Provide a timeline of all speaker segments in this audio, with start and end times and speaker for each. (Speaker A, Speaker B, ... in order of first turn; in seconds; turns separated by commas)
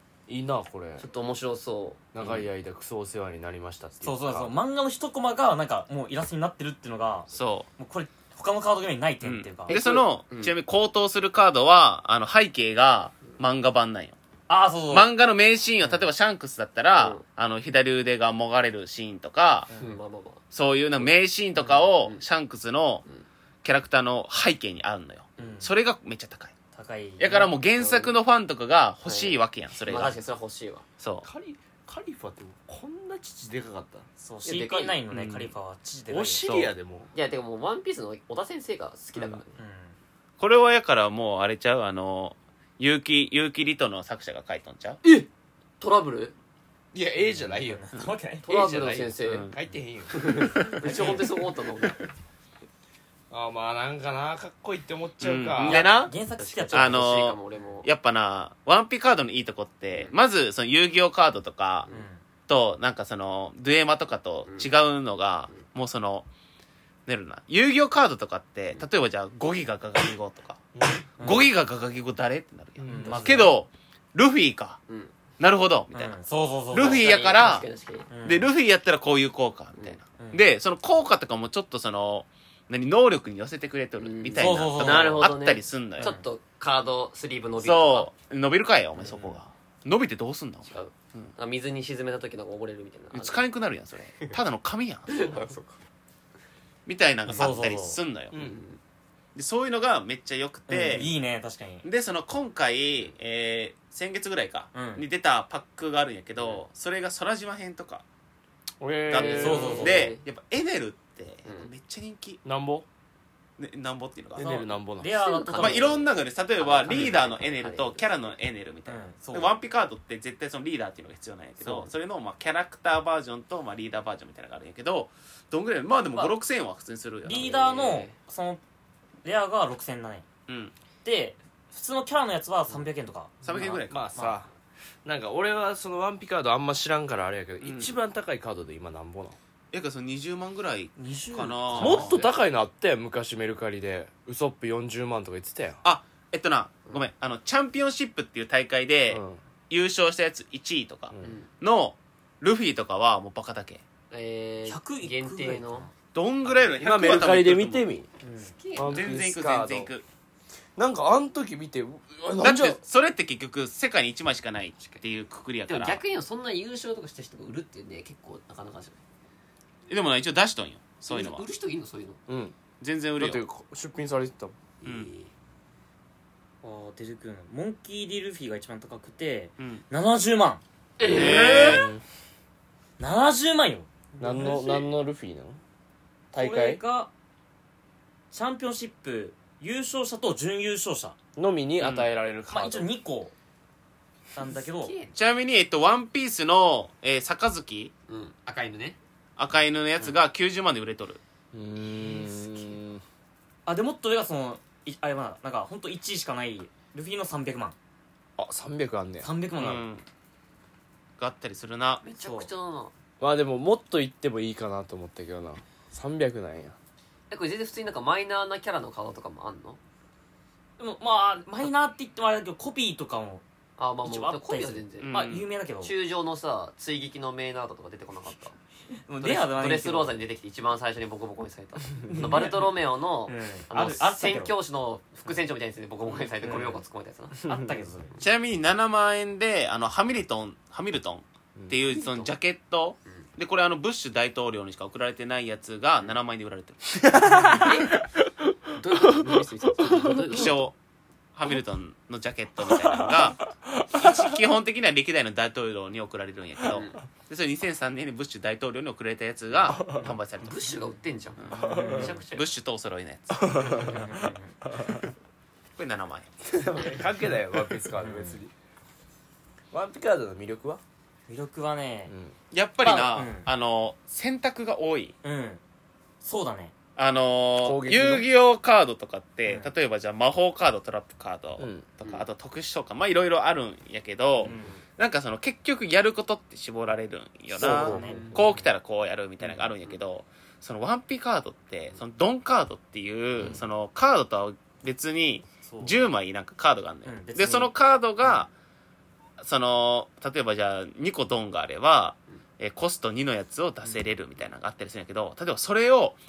Speaker A: 0.3-1.1, Speaker B: 1.0-2.0, Speaker A: 2.1-4.5, Speaker C: 2.2-2.5, Speaker D: 4.0-9.8, Speaker C: 7.3-7.7, Speaker C: 9.2-14.2, Speaker B: 9.7-10.5, Speaker D: 14.5-15.1, Speaker C: 14.9-19.7, Speaker D: 19.7-20.0, Speaker B: 19.8-20.4, Speaker C: 20.5-23.0, Speaker D: 21.6-21.9, Speaker C: 23.6-26.5, Speaker B: 25.4-25.6, Speaker D: 25.4-25.7, Speaker D: 26.7-27.5, Speaker C: 27.2-30.2, Speaker B: 27.8-28.1, Speaker B: 29.0-30.9, Speaker C: 31.0-31.3, Speaker A: 31.2-34.1, Speaker D: 34.2-36.7, Speaker B: 34.4-35.0, Speaker A: 35.1-35.5, Speaker A: 36.1-37.1, Speaker B: 37.1-39.6, Speaker D: 39.5-40.0, Speaker C: 40.4-45.0, Speaker B: 45.0-45.3, Speaker B: 45.8-46.3, Speaker A: 46.9-47.8, Speaker D: 47.2-48.5, Speaker B: 48.4-49.5, Speaker A: 48.5-51.4, Speaker C: 49.2-49.5, Speaker B: 50.1-52.0, Speaker D: 50.8-51.3, Speaker A: 53.3-55.8, Speaker C: 55.2-56.1, Speaker B: 55.6-57.9, Speaker D: 55.7-57.0, Speaker C: 56.7-61.9, Speaker D: 61.9-62.2, Speaker C: 62.5-66.3, Speaker B: 64.5-64.7, Speaker C: 67.0-70.6, Speaker A: 70.7-71.1, Speaker C: 71.2-74.8, Speaker D: 71.2-71.5, Speaker A: 72.8-73.2, Speaker D: 72.8-73.5, Speaker B: 74.9-75.1, Speaker C: 75.4-76.2, Speaker D: 75.9-77.1, Speaker C: 76.7-77.7, Speaker B: 76.7-78.1, Speaker D: 78.1-78.5, Speaker C: 78.2-86.1, Speaker D: 80.2-80.4, Speaker B: 84.0-88.1, Speaker D: 84.3-85.3, Speaker D: 86.0-86.2, Speaker C: 87.6-91.3, Speaker B: 89.0-89.4, Speaker B: 90.7-93.4, Speaker C: 93.1-95.4, Speaker B: 95.1-95.8, Speaker C: 96.8-98.4, Speaker B: 97.3-97.5, Speaker D: 97.3-98.0, Speaker A: 98.3-98.6, Speaker B: 98.3-98.8, Speaker C: 99.3-101.1, Speaker D: 100.7-101.8, Speaker C: 101.8-108.0, Speaker D: 104.7-105.0, Speaker B: 106.3-106.6, Speaker A: 108.8-109.8, Speaker C: 109.1-112.4, Speaker B: 109.1-110.2, Speaker D: 109.4-110.1, Speaker B: 111.4-111.7, Speaker A: 112.4-112.8, Speaker C: 113.6-114.5, Speaker A: 114.4-115.1, Speaker D: 114.4-116.0, Speaker B: 115.1-118.2, Speaker C: 115.6-127.5, Speaker D: 118.8-119.5, Speaker B: 121.6-121.9, Speaker D: 127.2-128.6, Speaker B: 127.3-128.1, Speaker D: 129.2-130.2, Speaker C: 130.5-130.7, Speaker D: 131.0-134.4, Speaker C: 133.4-134.1, Speaker A: 133.8-134.5, Speaker A: 135.0-139.4, Speaker C: 137.6-137.9, Speaker C: 139.7-142.3, Speaker D: 141.0-142.2, Speaker A: 141.7-145.8, Speaker C: 145.8-153.8, Speaker A: 149.1-149.4, Speaker B: 151.2-151.5, Speaker B: 154.1-155.9, Speaker D: 154.7-155.9, Speaker C: 156.1-157.8, Speaker B: 156.4-156.7, Speaker A: 156.8-158.1, Speaker D: 158.2-158.5, Speaker B: 158.4-159.1, Speaker A: 158.8-159.9, Speaker C: 158.8-160.1, Speaker A: 160.8-162.8, Speaker C: 162.4-166.0, Speaker B: 165.7-169.0, Speaker C: 169.9-171.4, Speaker B: 171.1-172.2, Speaker A: 172.3-172.5, Speaker C: 172.8-173.4, Speaker A: 173.2-174.6, Speaker B: 174.8-175.3, Speaker C: 174.8-175.1, Speaker D: 176.6-180.6, Speaker B: 181.0-181.9, Speaker C: 181.0-181.8, Speaker A: 181.1-182.0, Speaker D: 183.0-184.7, Speaker A: 184.2-185.6, Speaker B: 184.2-184.6, Speaker A: 186.3-186.8, Speaker D: 186.3-187.1, Speaker D: 188.3-191.2, Speaker A: 191.3-192.9, Speaker C: 191.8-192.1, Speaker D: 192.5-193.3, Speaker D: 194.3-194.9, Speaker B: 194.4-195.1, Speaker C: 195.1-197.9, Speaker B: 198.1-199.0, Speaker C: 199.4-201.2, Speaker A: 201.5-203.0, Speaker B: 202.1-202.6, Speaker D: 203.7-207.7, Speaker A: 208.4-209.3, Speaker D: 209.2-209.8, Speaker C: 209.6-210.0, Speaker C: 211.2-212.0, Speaker B: 212.0-212.9, Speaker D: 212.2-212.5, Speaker A: 213.2-216.8, Speaker B: 217.3-219.8, Speaker D: 220.8-223.4, Speaker B: 223.8-225.2, Speaker D: 224.0-225.9, Speaker C: 225.0-225.5, Speaker B: 225.8-228.5, Speaker D: 229.1-230.2, Speaker B: 229.2-237.4, Speaker D: 232.1-234.6, Speaker D: 236.4-236.8, Speaker A: 237.4-237.7, Speaker D: 237.4-238.2, Speaker C: 238.2-247.0, Speaker A: 241.6-241.8, Speaker B: 242.0-242.3, Speaker A: 247.0-248.4, Speaker D: 247.2-247.7, Speaker B: 247.5-248.0, Speaker B: 248.7-250.6, Speaker A: 249.0-250.5, Speaker C: 250.1-250.7, Speaker C: 251.3-260.6, Speaker A: 252.7-254.3, Speaker B: 256.6-257.0, Speaker B: 260.4-262.5, Speaker C: 261.4-263.9, Speaker A: 261.5-262.1, Speaker D: 261.6-262.2, Speaker A: 263.3-265.0, Speaker D: 263.6-264.6, Speaker C: 265.8-266.3, Speaker A: 266.4-268.5, Speaker D: 268.0-268.4, Speaker A: 269.7-270.8, Speaker D: 271.3-272.1, Speaker A: 272.1-272.3, Speaker C: 272.5-275.1, Speaker D: 272.8-273.5, Speaker D: 275.2-275.6, Speaker D: 276.2-276.7, Speaker C: 276.9-298.5, Speaker A: 277.6-278.3, Speaker D: 279.4-279.7, Speaker A: 281.6-281.8, Speaker D: 284.4-284.8, Speaker B: 284.4-284.8, Speaker A: 287.6-288.4, Speaker D: 287.6-288.4, Speaker B: 287.9-288.6, Speaker B: 293.4-293.6, Speaker D: 295.6-296.1, Speaker D: 297.1-297.7, Speaker C: 299.4-306.2